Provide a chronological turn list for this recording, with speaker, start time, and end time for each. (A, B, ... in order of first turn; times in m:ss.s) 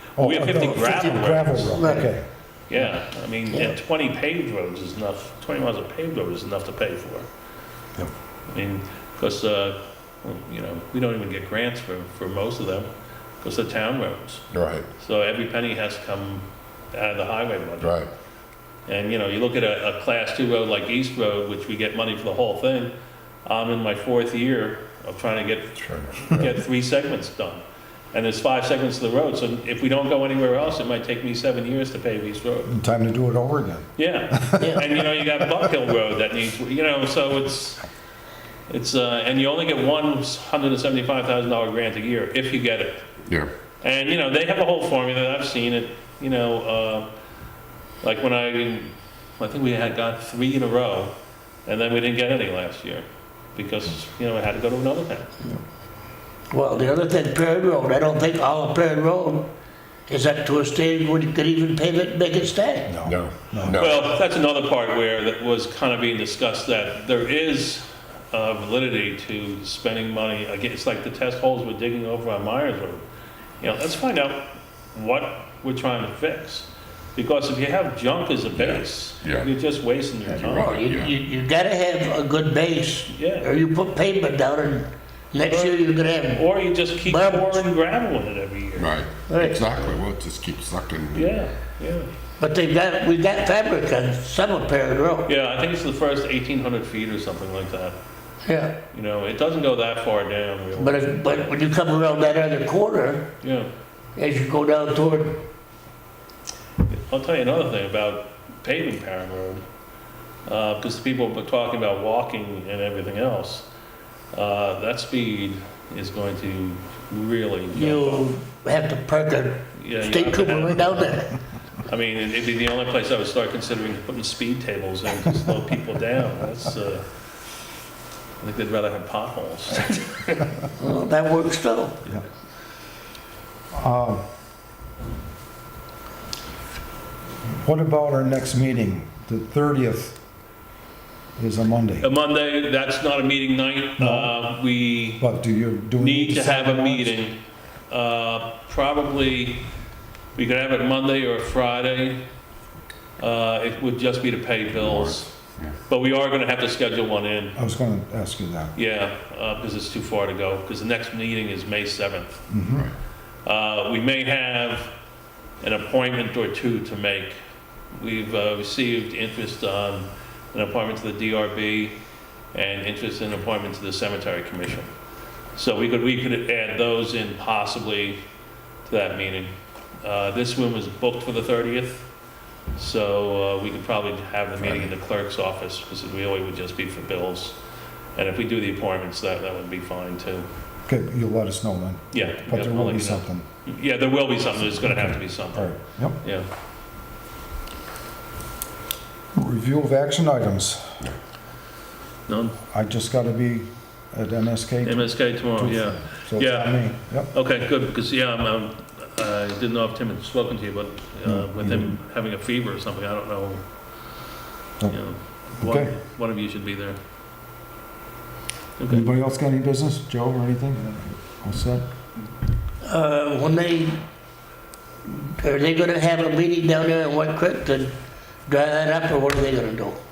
0:00.2-0:02.2 A
0:00.2-0:02.1 B
0:00.6-0:01.0 C
0:01.7-0:02.1 C
0:02.7-0:07.3 B
0:03.5-0:03.7 C
0:08.5-0:12.9 B
0:13.4-0:14.4 B
0:14.5-0:14.9 D
0:15.0-0:18.0 B
0:17.8-0:18.1 D
0:18.9-0:32.7 B
0:25.8-0:26.5 D
0:32.6-0:34.8 A
0:34.0-0:37.8 B
0:38.7-0:43.0 B
0:43.2-0:43.5 D
0:43.8-0:47.1 B
0:48.0-0:55.4 B
0:56.5-0:59.5 C
1:00.1-1:03.0 C
1:02.8-1:03.8 A
1:03.0-1:04.0 D
1:03.7-1:13.0 B
1:13.6-1:20.8 B
1:18.5-1:19.5 D
1:20.2-1:21.1 D
1:20.6-1:26.5 C
1:23.1-1:23.5 B
1:25.4-1:29.0 B
1:27.0-1:27.6 C
1:28.8-1:31.4 D
1:29.3-1:29.6 C
1:31.1-1:32.1 B
1:32.4-1:35.3 C
1:35.2-1:38.0 B
1:38.4-1:38.8 C
1:38.9-1:41.5 B
1:40.8-1:43.4 C
1:43.4-1:43.7 B
1:44.2-1:45.5 C
1:46.9-1:49.6 B
1:50.4-1:53.7 B
1:54.3-1:58.3 B
1:57.7-2:01.3 C
1:59.7-2:01.2 B
2:01.8-2:07.1 B
2:08.4-2:10.5 B
2:10.8-2:12.0 C
2:13.7-2:14.2 A
2:17.6-2:20.2 A
2:21.4-2:22.1 A
2:22.0-2:25.3 B
2:24.0-2:24.6 A
2:25.2-2:27.2 A
2:26.0-2:27.4 B
2:27.9-2:29.7 B
2:30.3-2:32.2 B
2:33.2-2:35.3 B
2:34.7-2:35.7 D
2:35.9-2:37.6 B
2:37.6-2:38.7 A
2:38.7-2:42.5 B
2:42.5-2:42.9 A
2:43.4-2:44.9 B
2:45.6-2:47.4 B
2:47.9-2:52.0 B
2:52.5-2:54.9 B
2:55.5-2:58.2 B
2:58.8-3:02.1 B
3:02.7-3:07.6 B
3:04.6-3:04.9 D
3:08.1-3:10.5 B
3:10.8-3:13.4 A
3:12.1-3:16.5 B
3:14.7-3:16.2 A
3:19.3-3:21.1 A
3:22.3-3:22.6 B
3:22.7-3:27.3 A
3:24.8-3:33.6 B
3:31.2-3:31.9 A
3:34.9-3:37.0 B
3:35.6-3:35.9 A
3:38.8-3:39.1 B
3:38.9-3:41.8 A
3:42.8-3:44.0 C
3:45.0-3:50.0 C